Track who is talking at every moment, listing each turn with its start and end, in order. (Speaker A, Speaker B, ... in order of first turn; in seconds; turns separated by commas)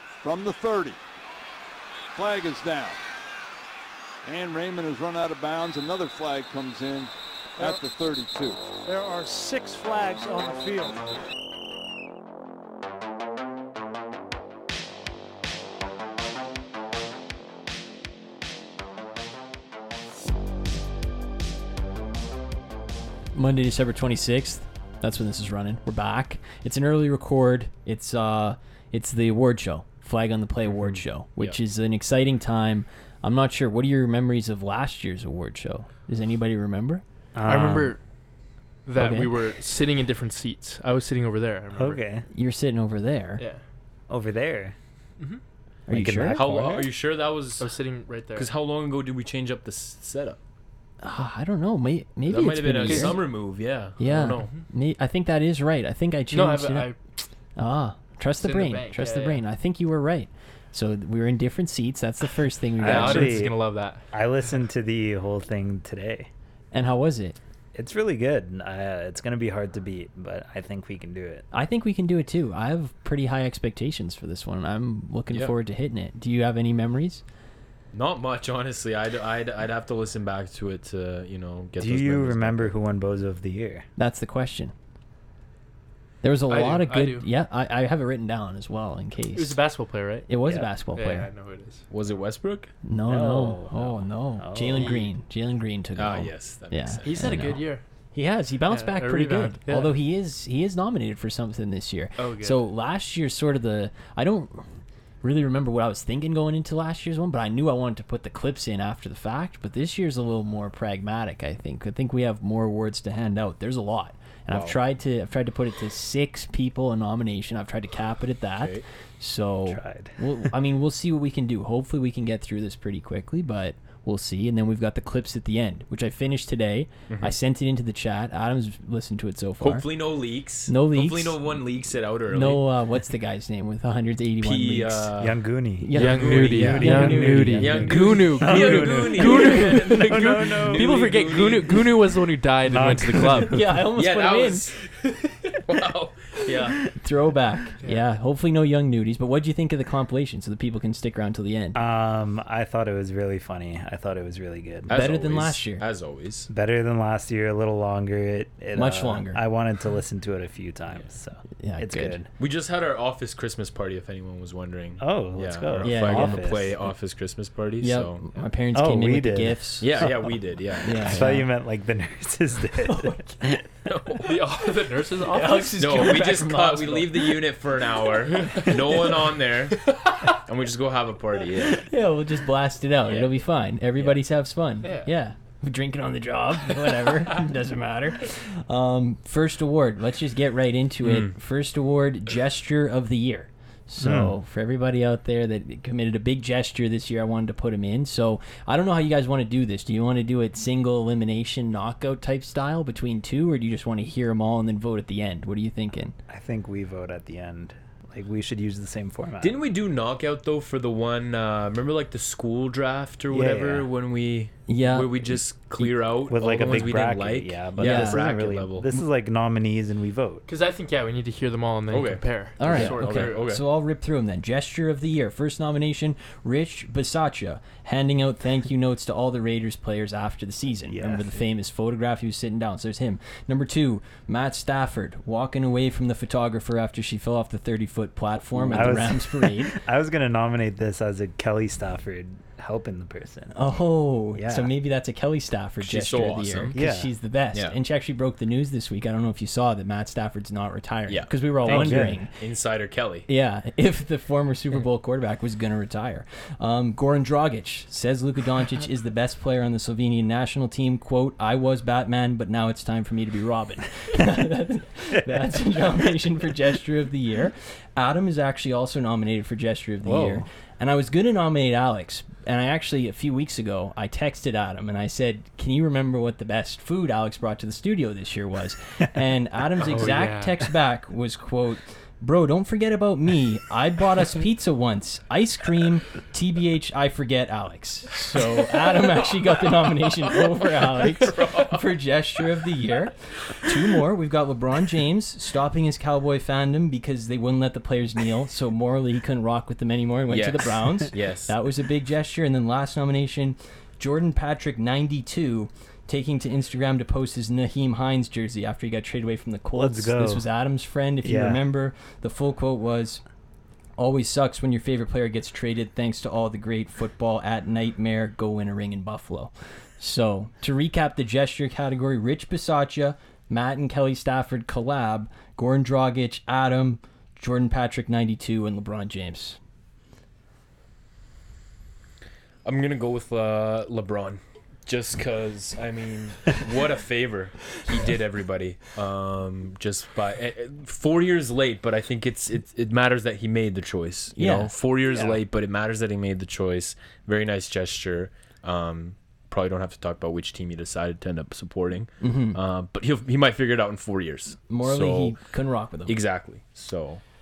Speaker A: 0.2-1.0, Speaker A: 2.1-3.0, Speaker A: 4.2-8.6, Speaker B: 7.6-7.8, Speaker B: 8.8-11.1, Speaker C: 23.3-37.0, Speaker D: 37.3-37.9, Speaker E: 37.4-38.0, Speaker E: 38.9-42.0, Speaker C: 39.0-39.3, Speaker D: 41.7-42.2, Speaker C: 42.3-43.4, Speaker D: 44.1-44.7, Speaker C: 45.9-46.4, Speaker D: 45.9-46.9, Speaker F: 45.9-47.7, Speaker E: 47.6-48.5, Speaker F: 48.3-50.4, Speaker C: 51.0-53.2, Speaker F: 52.3-54.5, Speaker E: 52.9-53.1, Speaker C: 54.0-56.9, Speaker E: 56.3-57.1, Speaker C: 57.6-63.4, Speaker E: 58.4-59.4, Speaker D: 62.8-63.6, Speaker E: 62.8-64.0, Speaker D: 64.1-66.3, Speaker C: 66.7-67.4, Speaker D: 67.7-71.5, Speaker C: 71.5-77.2, Speaker F: 77.9-82.7, Speaker D: 81.8-83.8, Speaker C: 84.0-84.7, Speaker C: 86.2-89.6, Speaker E: 86.5-87.3, Speaker E: 89.3-90.3, Speaker C: 90.3-91.3, Speaker E: 90.9-91.8, Speaker F: 91.9-92.7, Speaker C: 92.8-104.7, Speaker D: 93.0-95.0, Speaker E: 94.8-95.1, Speaker F: 96.0-97.5, Speaker E: 97.0-97.8, Speaker E: 98.7-99.9, Speaker E: 102.2-102.6, Speaker C: 105.2-129.8, Speaker F: 114.5-114.8, Speaker F: 118.6-118.8, Speaker D: 119.7-120.5, Speaker F: 129.6-132.7, Speaker C: 130.7-131.4, Speaker C: 132.3-135.1, Speaker F: 134.4-135.4, Speaker D: 135.2-140.9, Speaker C: 135.8-137.9, Speaker E: 135.9-143.5, Speaker F: 135.9-141.9, Speaker C: 139.3-139.8, Speaker D: 142.7-143.8, Speaker C: 143.4-144.7, Speaker F: 143.9-144.8, Speaker F: 145.7-146.9, Speaker C: 146.9-151.8, Speaker D: 151.7-154.9, Speaker F: 154.9-156.5, Speaker C: 154.9-155.8, Speaker D: 156.5-162.3, Speaker C: 158.7-159.4, Speaker C: 161.6-162.2, Speaker F: 162.4-168.2, Speaker D: 165.0-166.8, Speaker C: 165.8-166.4, Speaker C: 167.8-170.3, Speaker D: 168.7-170.2, Speaker F: 169.8-171.3, Speaker C: 170.8-171.5, Speaker D: 171.0-173.6, Speaker C: 172.8-173.5, Speaker F: 173.8-174.3, Speaker E: 174.2-176.2, Speaker C: 175.3-177.3, Speaker F: 175.8-181.9, Speaker E: 178.3-180.2, Speaker C: 181.8-206.1, Speaker F: 191.0-191.3, Speaker D: 194.0-194.3, Speaker D: 206.3-209.6, Speaker F: 209.4-218.9, Speaker D: 213.3-213.9, Speaker C: 214.7-215.9, Speaker D: 216.3-220.4, Speaker C: 217.8-218.2, Speaker E: 220.5-223.4, Speaker F: 221.9-223.6, Speaker C: 222.6-239.7, Speaker D: 230.9-231.3, Speaker D: 238.5-243.6, Speaker C: 243.5-252.3, Speaker D: 244.3-244.7, Speaker F: 245.8-246.8, Speaker D: 246.7-247.1, Speaker F: 251.1-253.3, Speaker D: 251.7-252.2, Speaker C: 253.3-313.2, Speaker F: 270.0-270.4, Speaker E: 279.9-280.6, Speaker F: 289.6-291.9, Speaker F: 300.3-301.5, Speaker D: 309.7-310.5, Speaker D: 311.2-311.6, Speaker C: 314.0-329.6, Speaker F: 332.6-355.4, Speaker C: 344.4-344.7, Speaker D: 345.1-345.4, Speaker C: 352.2-352.6, Speaker C: 354.7-356.2, Speaker F: 356.1-357.2